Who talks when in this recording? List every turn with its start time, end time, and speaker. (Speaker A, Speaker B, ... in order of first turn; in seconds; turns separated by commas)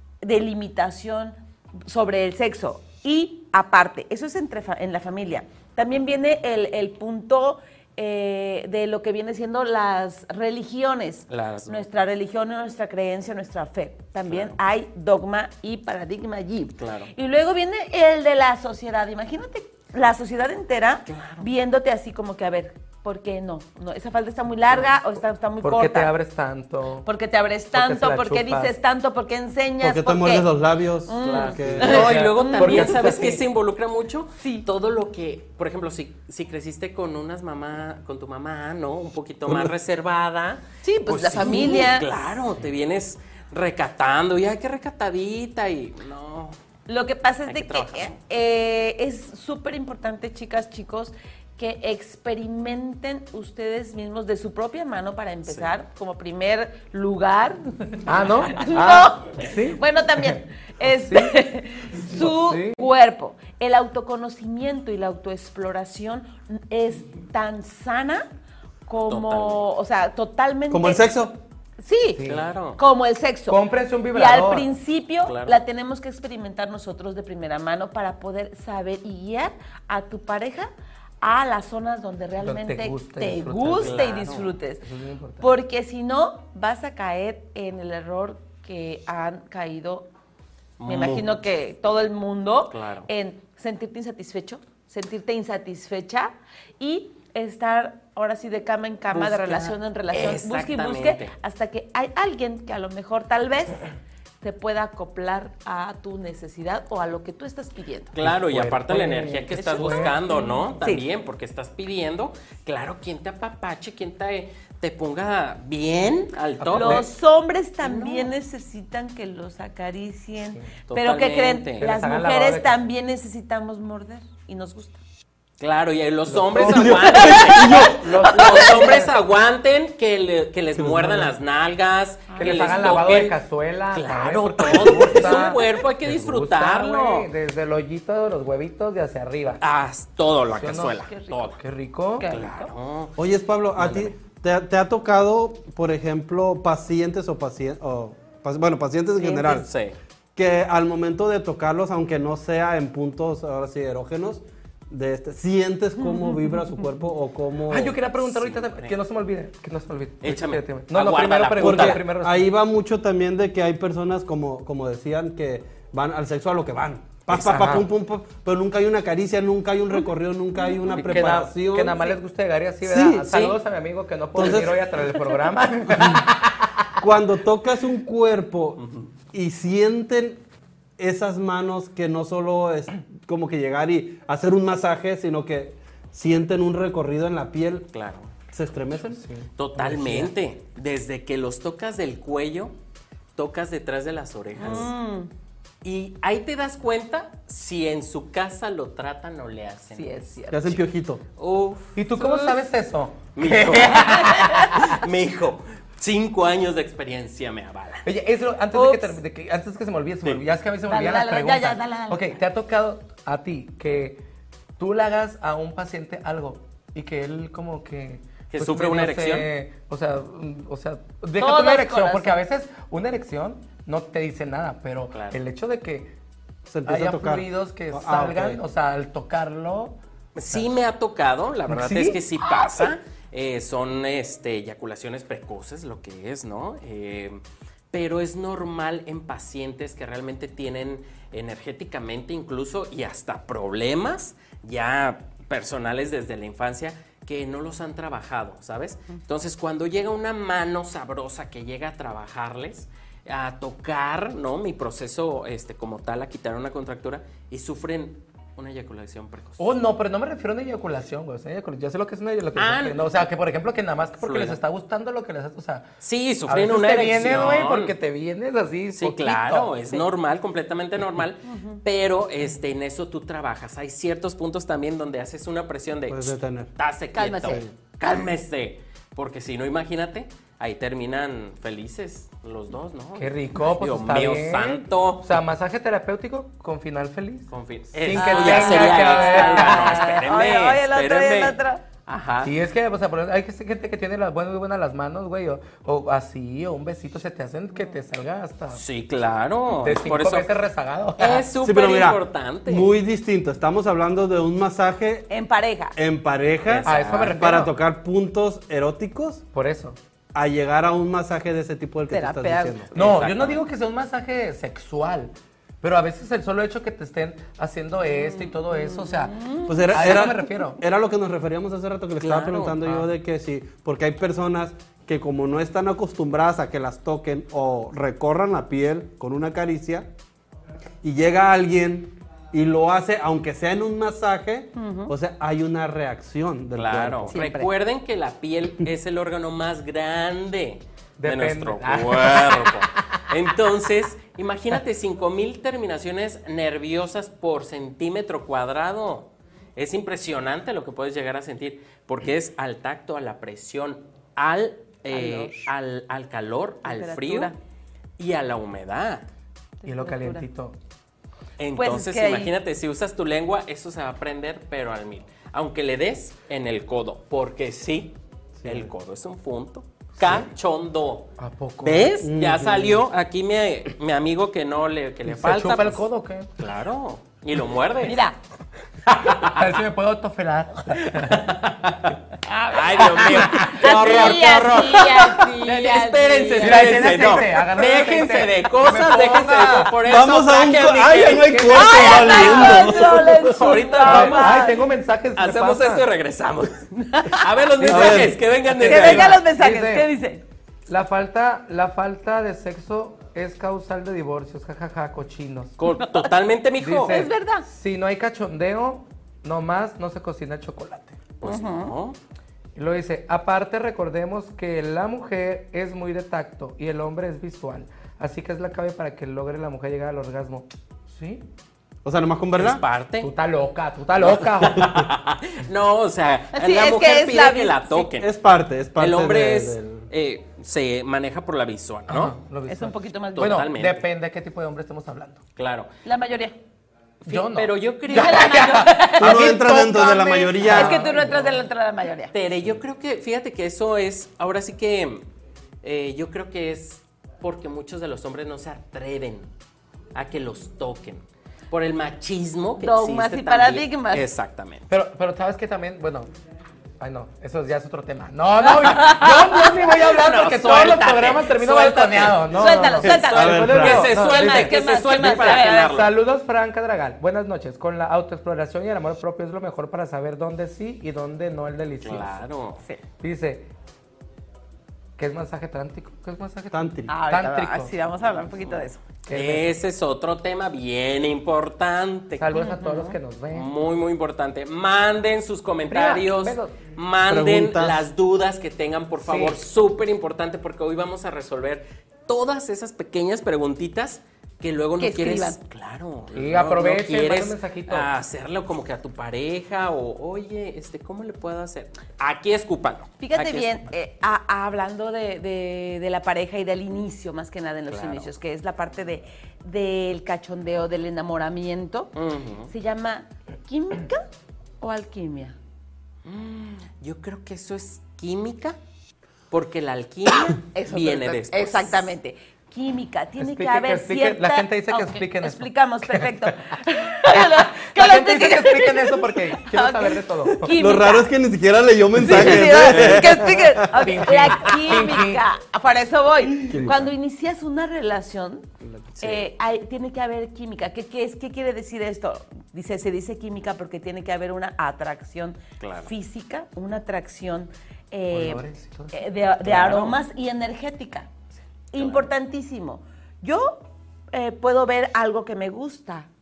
Speaker A: 0.2-26.1, Speaker B: 11.3-11.9, Speaker B: 14.2-14.6, Speaker B: 16.8-17.1, Speaker B: 21.1-21.5, Speaker C: 25.6-27.1, Speaker A: 27.0-30.5, Speaker C: 27.7-28.7, Speaker D: 29.8-32.1, Speaker A: 31.1-33.3, Speaker B: 31.2-46.5, Speaker C: 31.8-33.4, Speaker A: 34.4-34.7, Speaker A: 40.8-42.1, Speaker A: 46.9-68.2, Speaker B: 47.4-48.1, Speaker B: 55.4-55.7, Speaker C: 58.1-61.4, Speaker C: 62.1-62.8, Speaker A: 68.9-71.2, Speaker B: 69.1-69.7, Speaker D: 70.7-71.3, Speaker A: 71.8-72.2, Speaker C: 72.1-72.5, Speaker B: 72.2-72.8, Speaker A: 72.8-80.7, Speaker C: 73.5-74.7, Speaker B: 75.2-75.6, Speaker A: 81.2-84.8, Speaker C: 82.4-84.0, Speaker B: 83.7-84.5, Speaker C: 84.8-85.5, Speaker A: 85.4-90.1, Speaker B: 90.8-91.4, Speaker A: 90.9-103.8, Speaker B: 92.7-93.1, Speaker B: 99.1-101.3, Speaker A: 104.4-108.1, Speaker B: 108.1-117.1, Speaker C: 108.2-110.2, Speaker A: 109.6-111.0, Speaker C: 116.6-117.1, Speaker A: 116.7-125.0, Speaker B: 117.8-118.3, Speaker B: 120.9-121.9, Speaker C: 121.8-122.8, Speaker B: 125.6-133.4, Speaker C: 126.3-129.2, Speaker D: 126.6-128.1, Speaker A: 128.4-129.0, Speaker D: 130.8-131.2, Speaker C: 130.9-131.2, Speaker A: 132.3-132.8, Speaker C: 132.4-139.6, Speaker B: 133.9-137.3, Speaker A: 135.2-135.5, Speaker B: 139.6-141.6, Speaker C: 140.6-141.0, Speaker A: 141.1-141.6, Speaker C: 141.6-142.3, Speaker A: 142.2-142.7, Speaker B: 142.3-143.2, Speaker D: 143.2-149.7, Speaker B: 143.8-144.1, Speaker B: 149.3-149.9, Speaker D: 150.3-157.9, Speaker A: 156.0-156.6, Speaker C: 157.7-162.5, Speaker B: 158.2-159.0, Speaker B: 160.2-162.0, Speaker D: 161.6-172.1, Speaker C: 167.3-167.9, Speaker C: 170.9-176.7, Speaker D: 172.8-173.3, Speaker B: 173.3-173.6, Speaker D: 174.3-174.9, Speaker D: 175.9-176.2, Speaker D: 177.0-180.4, Speaker B: 178.8-179.1, Speaker D: 181.0-187.9, Speaker B: 187.9-188.3, Speaker D: 188.5-189.2, Speaker C: 189.2-190.3, Speaker B: 189.6-192.7, Speaker B: 193.3-194.9, Speaker A: 194.6-195.3, Speaker B: 195.8-200.2, Speaker A: 199.9-200.7, Speaker D: 200.5-201.2, Speaker B: 201.4-202.0, Speaker C: 201.9-205.0, Speaker A: 202.1-202.5, Speaker B: 203.3-208.1, Speaker A: 204.0-204.8, Speaker C: 208.0-214.2, Speaker A: 208.7-209.2, Speaker A: 210.9-212.4, Speaker C: 214.8-226.1, Speaker B: 218.5-219.5, Speaker A: 221.4-222.3, Speaker B: 225.1-225.4, Speaker D: 226.7-228.6, Speaker C: 226.8-229.9, Speaker B: 230.3-237.4, Speaker C: 231.7-232.8, Speaker B: 237.9-259.6, Speaker C: 259.6-265.9, Speaker B: 262.6-263.2, Speaker B: 264.2-264.6, Speaker B: 266.0-267.9, Speaker C: 266.5-270.0, Speaker B: 268.9-285.4, Speaker A: 271.4-271.8, Speaker D: 276.1-276.7, Speaker A: 277.1-277.6, Speaker C: 283.1-290.0, Speaker B: 287.5-292.5, Speaker A: 288.1-291.8, Speaker C: 292.4-298.8, Speaker B: 298.7-300.5, Speaker C: 299.7-301.4, Speaker B: 301.2-302.9, Speaker D: 301.6-305.3, Speaker A: 305.3-305.9, Speaker D: 305.9-309.4, Speaker B: 306.6-307.5, Speaker C: 306.9-307.7, Speaker C: 309.5-310.0, Speaker D: 310.3-312.9, Speaker A: 312.1-313.0, Speaker B: 312.9-313.6, Speaker C: 312.9-319.3, Speaker A: 318.1-320.3, Speaker D: 319.6-330.1, Speaker C: 319.9-320.8, Speaker B: 322.2-322.9, Speaker D: 331.0-337.5, Speaker A: 334.8-335.1, Speaker B: 336.8-357.5, Speaker A: 337.3-337.7, Speaker C: 341.2-342.9, Speaker A: 355.1-355.7, Speaker A: 356.8-357.6, Speaker B: 358.2-359.3, Speaker A: 359.8-360.4, Speaker C: 359.8-360.8, Speaker B: 361.6-371.3, Speaker A: 361.7-362.5, Speaker D: 368.6-368.9, Speaker C: 371.4-372.1, Speaker B: 371.8-376.0, Speaker D: 372.2-373.0, Speaker C: 375.3-376.5, Speaker B: 376.6-378.2, Speaker A: 378.0-378.4, Speaker B: 379.1-379.6, Speaker C: 379.4-381.4, Speaker B: 381.1-382.1, Speaker A: 382.4-387.1, Speaker B: 382.7-394.7, Speaker C: 383.4-383.9, Speaker C: 386.6-389.9, Speaker D: 390.0-393.8, Speaker C: 391.5-391.7, Speaker A: 391.6-394.8, Speaker C: 394.0-396.1, Speaker B: 395.3-399.4, Speaker A: 396.9-397.5, Speaker C: 397.8-400.1, Speaker D: 397.9-398.4, Speaker A: 398.8-400.4, Speaker C: 400.9-405.7, Speaker B: 405.8-407.3, Speaker A: 405.9-406.3, Speaker C: 406.8-411.2, Speaker A: 407.1-407.6, Speaker B: 411.4-412.2, Speaker A: 411.4-411.9, Speaker C: 412.8-421.4, Speaker D: 422.0-422.8, Speaker B: 422.6-423.3, Speaker C: 423.2-424.9, Speaker B: 424.2-428.3, Speaker A: 426.5-428.1, Speaker D: 428.2-430.1, Speaker B: 429.0-432.4, Speaker C: 432.1-435.4, Speaker A: 432.6-433.6, Speaker B: 433.3-434.0, Speaker B: 435.6-435.9, Speaker A: 436.0-436.5, Speaker C: 437.2-441.6, Speaker B: 437.3-438.9, Speaker A: 438.1-442.3, Speaker D: 439.2-441.0, Speaker B: 442.3-445.2, Speaker B: 445.8-449.5, Speaker B: 450.1-454.9, Speaker A: 452.8-454.3, Speaker C: 454.9-456.3, Speaker C: 457.0-472.3, Speaker A: 458.8-459.4, Speaker B: 458.9-466.1, Speaker A: 462.5-466.0, Speaker D: 463.2-464.1, Speaker B: 472.0-472.8, Speaker C: 473.2-473.7, Speaker C: 475.2-477.9, Speaker D: 476.7-477.1, Speaker A: 477.1-479.0, Speaker B: 478.2-482.5, Speaker C: 479.2-479.7, Speaker C: 482.4-483.7, Speaker A: 482.5-483.2, Speaker B: 483.5-503.8, Speaker C: 485.9-486.8, Speaker D: 487.2-488.1, Speaker C: 489.2-489.6, Speaker A: 495.0-495.6, Speaker C: 496.3-498.1, Speaker A: 503.2-512.1, Speaker B: 507.9-508.3, Speaker B: 512.1-512.7, Speaker A: 512.7-514.2, Speaker A: 514.8-515.6, Speaker B: 516.2-518.8, Speaker B: 519.5-522.1, Speaker A: 520.3-531.3, Speaker C: 523.4-526.3, Speaker C: 527.9-530.7, Speaker D: 530.7-534.1, Speaker A: 532.1-538.6, Speaker B: 532.2-533.4, Speaker C: 533.9-535.4, Speaker D: 536.5-537.1, Speaker B: 539.1-539.5, Speaker A: 539.2-551.3, Speaker B: 545.8-546.1, Speaker C: 548.3-549.3, Speaker B: 549.6-550.2, Speaker A: 551.9-556.3, Speaker B: 552.0-552.3